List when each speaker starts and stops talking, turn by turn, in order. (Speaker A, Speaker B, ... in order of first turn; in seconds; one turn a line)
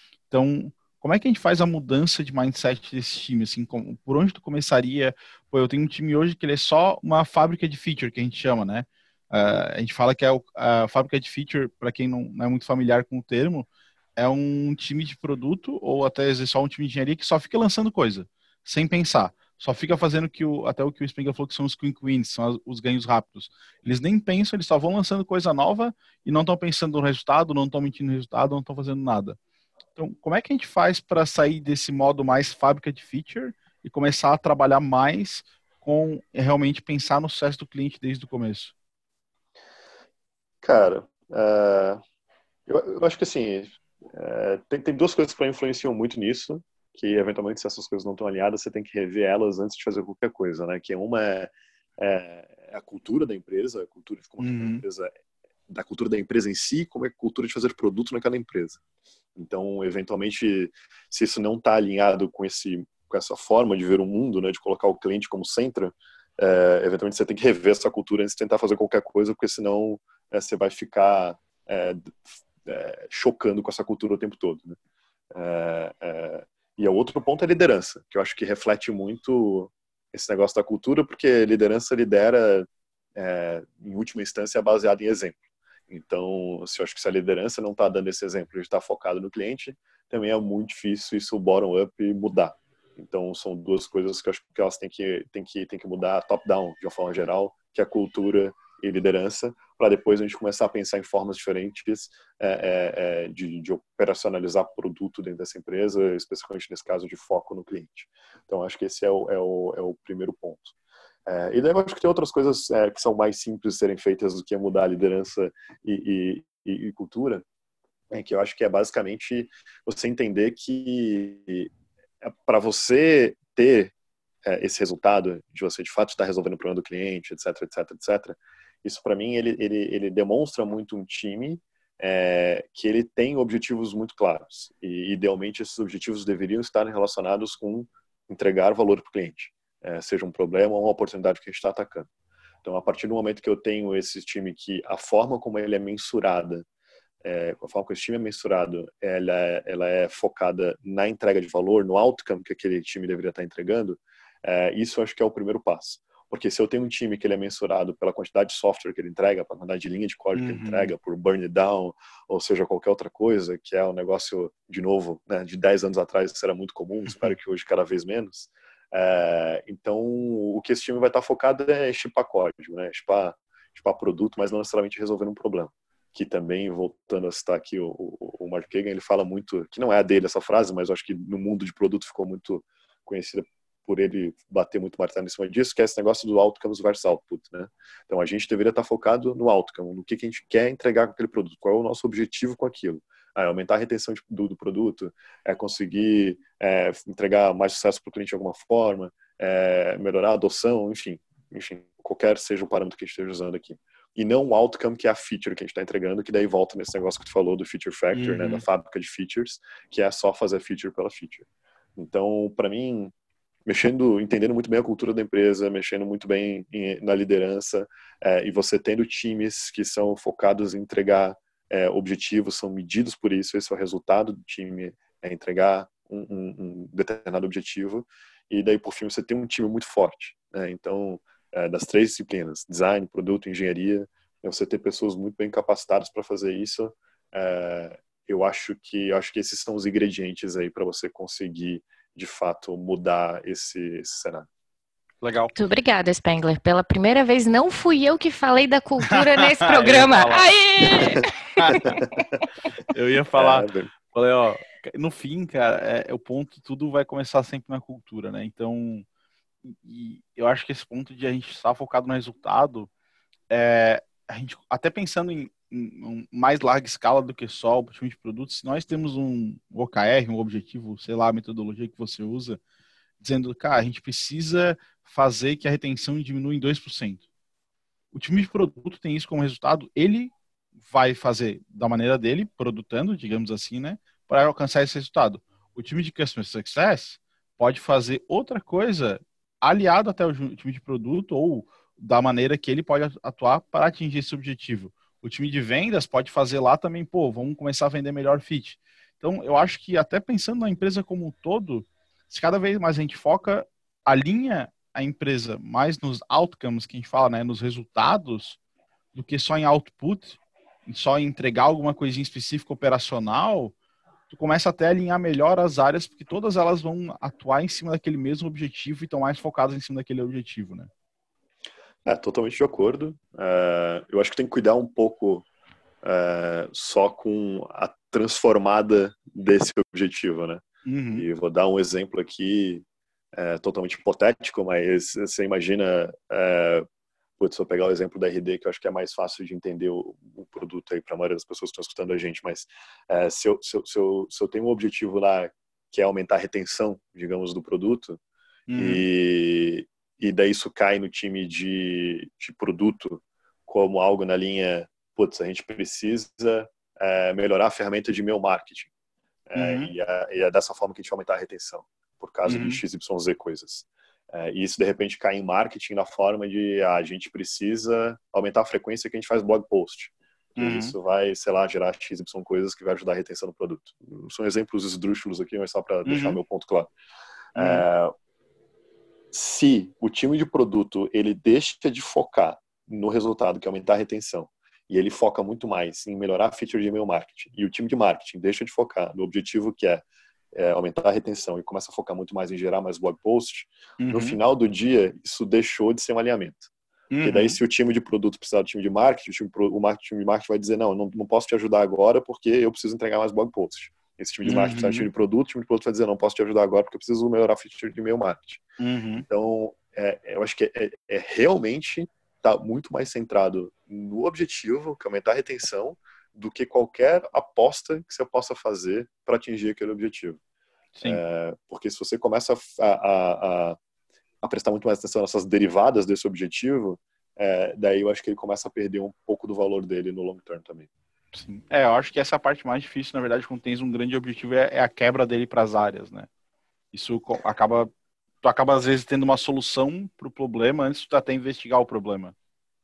Speaker A: 0.3-29.4
Speaker A: 29.9-38.7
Speaker B: 40.6-42.0
Speaker B: 42.7-55.1
Speaker A: 54.4-54.8
Speaker B: 55.7-58.8
Speaker B: 59.4-74.8
Speaker B: 75.3-85.4
Speaker B: 85.9-110.7
Speaker B: 111.2-117.4
Speaker B: 118.1-121.7
Speaker B: 122.2-123.9
Speaker B: 124.4-142.1
Speaker B: 142.6-146.6
Speaker B: 147.2-213.1
Speaker A: 160.3-160.9
Speaker A: 208.1-208.6
Speaker B: 213.7-244.5
Speaker A: 245.2-245.5
Speaker C: 245.5-252.0
Speaker A: 249.1-252.0
Speaker B: 251.8-252.4
Speaker A: 252.9-259.0
Speaker B: 253.3-253.9
Speaker A: 259.6-262.9
Speaker A: 263.5-272.6
Speaker A: 273.2-277.2
Speaker A: 278.1-280.3
Speaker A: 280.9-308.6
Speaker A: 309.1-313.7
Speaker A: 314.3-320.9
Speaker B: 322.1-325.5
Speaker B: 326.0-336.9
Speaker A: 330.8-331.2
Speaker B: 337.4-348.2
Speaker A: 348.7-349.0
Speaker B: 348.8-358.9
Speaker B: 359.5-376.9
Speaker A: 359.6-359.9
Speaker A: 362.5-362.8
Speaker A: 370.6-370.9
Speaker A: 376.1-376.4
Speaker B: 377.5-378.1
Speaker A: 377.6-377.9
Speaker B: 379.3-396.7
Speaker A: 394.0-394.4
Speaker A: 397.1-397.6
Speaker B: 397.2-408.6
Speaker A: 404.4-405.1
Speaker A: 408.8-409.2
Speaker B: 409.3-420.4
Speaker A: 420.9-421.2
Speaker B: 421.0-423.8
Speaker B: 424.4-430.9
Speaker A: 431.3-436.3
Speaker A: 436.9-437.9
Speaker A: 438.4-442.3